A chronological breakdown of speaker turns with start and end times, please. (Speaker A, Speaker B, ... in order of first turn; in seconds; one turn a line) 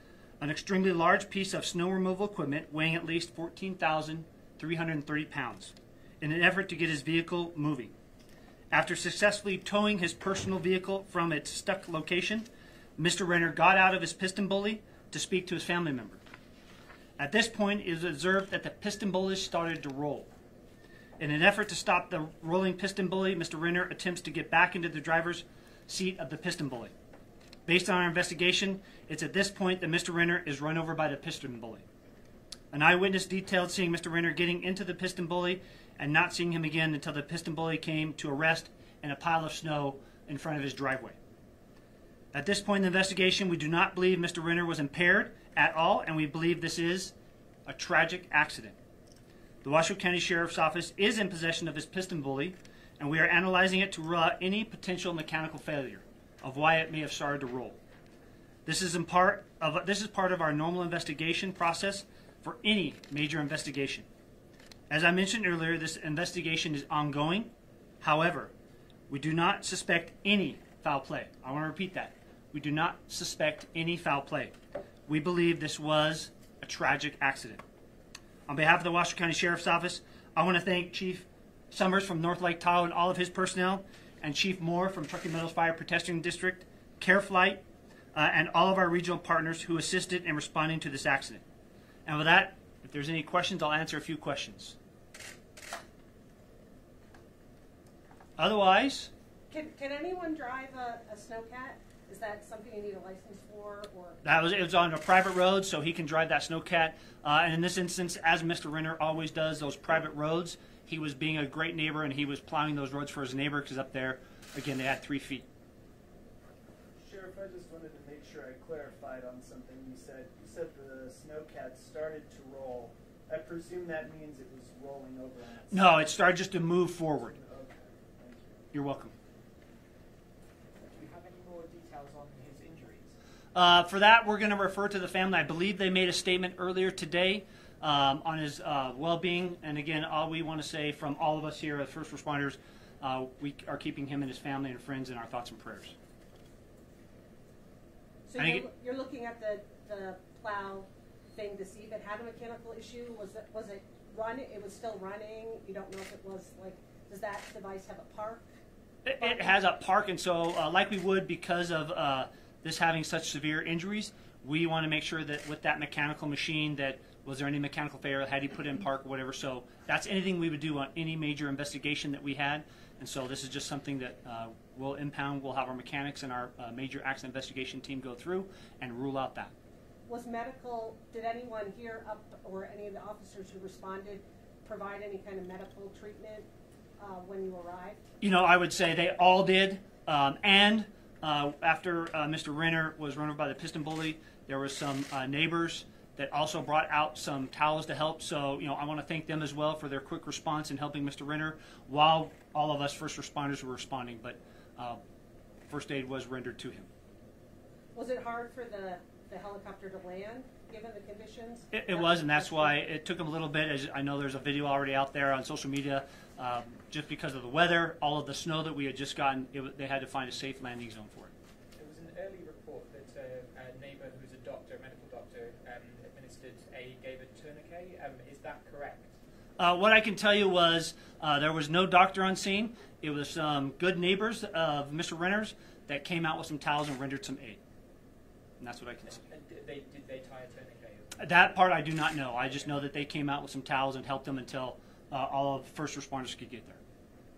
Speaker A: 0.4-7.9
Speaker A: 8.7-16.2
Speaker A: 17.2-20.3
Speaker A: 21.2-26.9
Speaker A: 27.6-31.8
Speaker A: 32.7-41.2
Speaker A: 42.3-47.1
Speaker A: 47.6-48.8
Speaker A: 49.6-57.8
Speaker A: 58.6-64.1
Speaker A: 64.9-68.5
Speaker A: 69.1-74.5
Speaker A: 75.1-77.6
Speaker A: 78.5-87.6
Speaker A: 88.1-91.4
Speaker A: 92.0-94.8
Speaker A: 98.4-99.1
Speaker B: 99.5-104.2
Speaker A: 104.2-115.5
Speaker C: 117.0-126.3
Speaker A: 125.7-127.3
Speaker C: 127.1-128.6
Speaker A: 128.7-129.1
Speaker D: 130.8-133.1
Speaker A: 133.5-145.9
Speaker B: 148.3-158.4
Speaker A: 148.4-148.7
Speaker A: 159.0-179.5
Speaker B: 159.2-159.5
Speaker B: 180.1-186.5
Speaker B: 187.0-188.0
Speaker A: 188.2-205.0
Speaker A: 205.7-206.9
Speaker B: 207.9-212.8
Speaker A: 211.7-221.3
Speaker D: 221.8-229.1
Speaker A: 229.6-237.6
Speaker A: 238.6-239.2
Speaker D: 239.1-242.8
Speaker A: 241.2-246.8